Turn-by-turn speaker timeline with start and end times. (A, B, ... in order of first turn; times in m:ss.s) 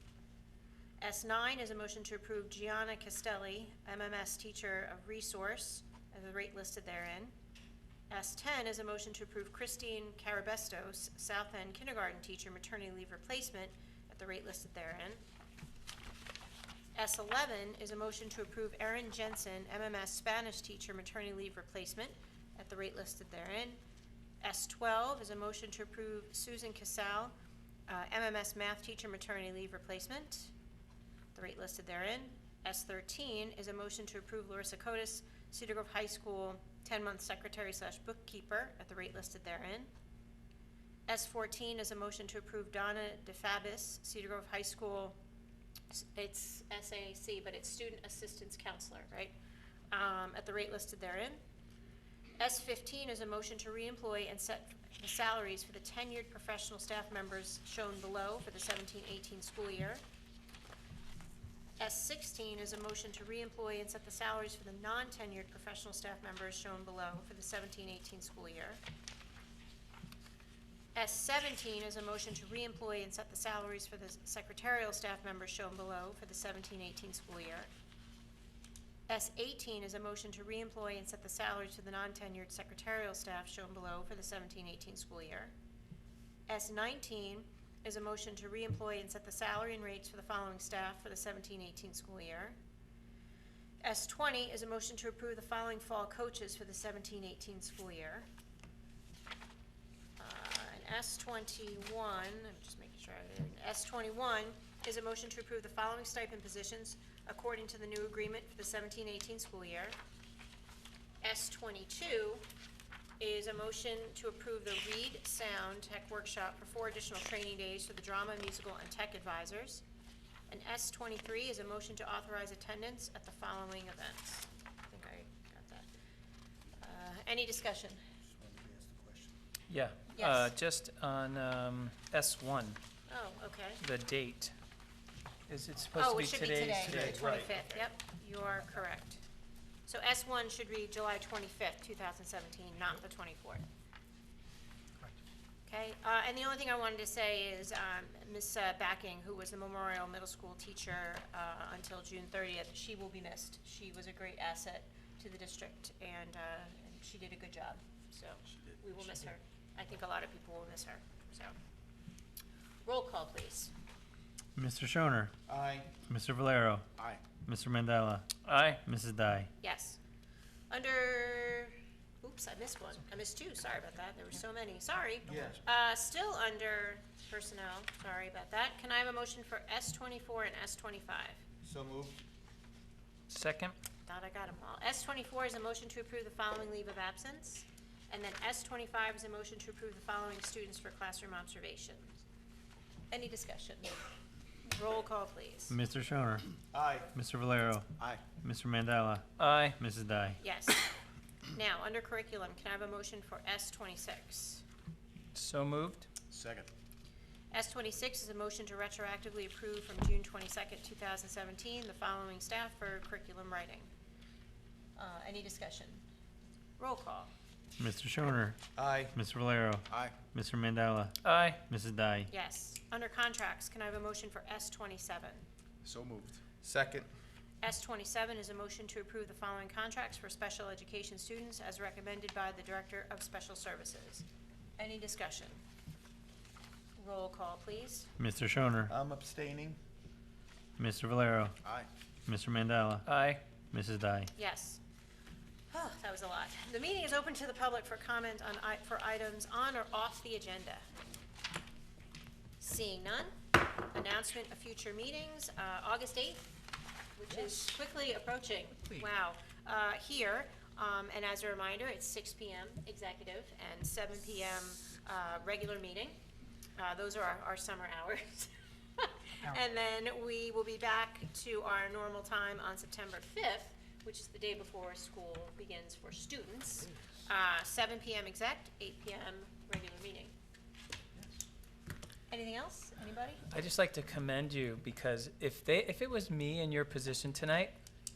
0:01.0-0:07.3 A
0:08.1-0:15.2 A
0:16.9-0:23.8 A
0:24.4-0:27.3 A
0:27.9-0:30.5 A
0:31.3-0:39.9 A
0:41.1-0:45.2 A
0:45.9-0:49.3 A
0:49.9-0:51.4 A
0:52.4-1:00.0 A
1:01.8-1:08.8 A
1:10.9-1:17.7 A
1:19.1-1:25.5 A
1:26.5-1:32.6 A
1:33.8-1:38.3 A
1:40.2-1:50.0 A
1:51.2-1:52.4 A
1:53.2-1:59.8 A
2:00.5-2:05.8 A
2:06.8-2:08.0 A
2:08.2-2:09.4 B
2:09.7-2:12.8 C
2:10.1-2:10.5 A
2:13.1-2:13.8 A
2:13.8-2:14.5 C
2:15.5-2:17.3 C
2:16.0-2:19.2 A
2:16.8-2:17.6 B
2:19.9-2:23.6 A
2:25.7-2:41.5 A
2:42.8-2:43.7 A
2:44.6-2:45.3 D
2:45.5-2:45.9 B
2:46.0-2:46.9 D
2:47.4-2:48.3 D
2:48.4-2:48.8 C
2:48.8-2:49.5 D
2:49.6-2:50.0 A
2:50.7-3:01.4 A
2:55.3-2:55.6 B
3:01.6-3:02.2 B
3:03.3-3:03.7 C
3:04.0-3:12.2 A
3:13.1-3:13.9 A
3:14.6-3:15.7 A
3:15.7-3:16.5 D
3:16.7-3:17.1 B
3:17.1-3:19.2 D
3:19.4-3:19.8 C
3:19.8-3:20.4 D
3:20.4-3:20.8 A
3:21.5-3:24.6 A
3:25.3-3:26.1 C
3:26.3-3:26.7 B
3:27.5-3:33.9 A
3:35.0-3:36.0 A
3:36.8-3:37.3 A
3:37.8-3:38.6 D
3:38.8-3:39.1 B
3:39.1-3:42.3 D
3:39.9-3:40.1 B
3:41.2-3:41.6 C
3:42.3-3:45.4 A
3:45.8-3:47.1 B
3:47.6-3:54.2 A
3:54.8-3:55.6 A
3:57.0-3:58.1 A
3:58.2-3:58.9 D
3:58.9-3:59.8 B
4:00.8-4:01.6 D
4:02.2-4:03.0 D
4:03.0-4:03.4 C
4:03.7-4:04.3 D
4:04.4-4:04.8 A
4:05.7-4:10.8 A
4:12.6-4:16.4 A
4:17.2-4:26.2 A
4:26.8-4:40.3 A
4:42.3-4:43.4 A
4:43.5-4:47.7 C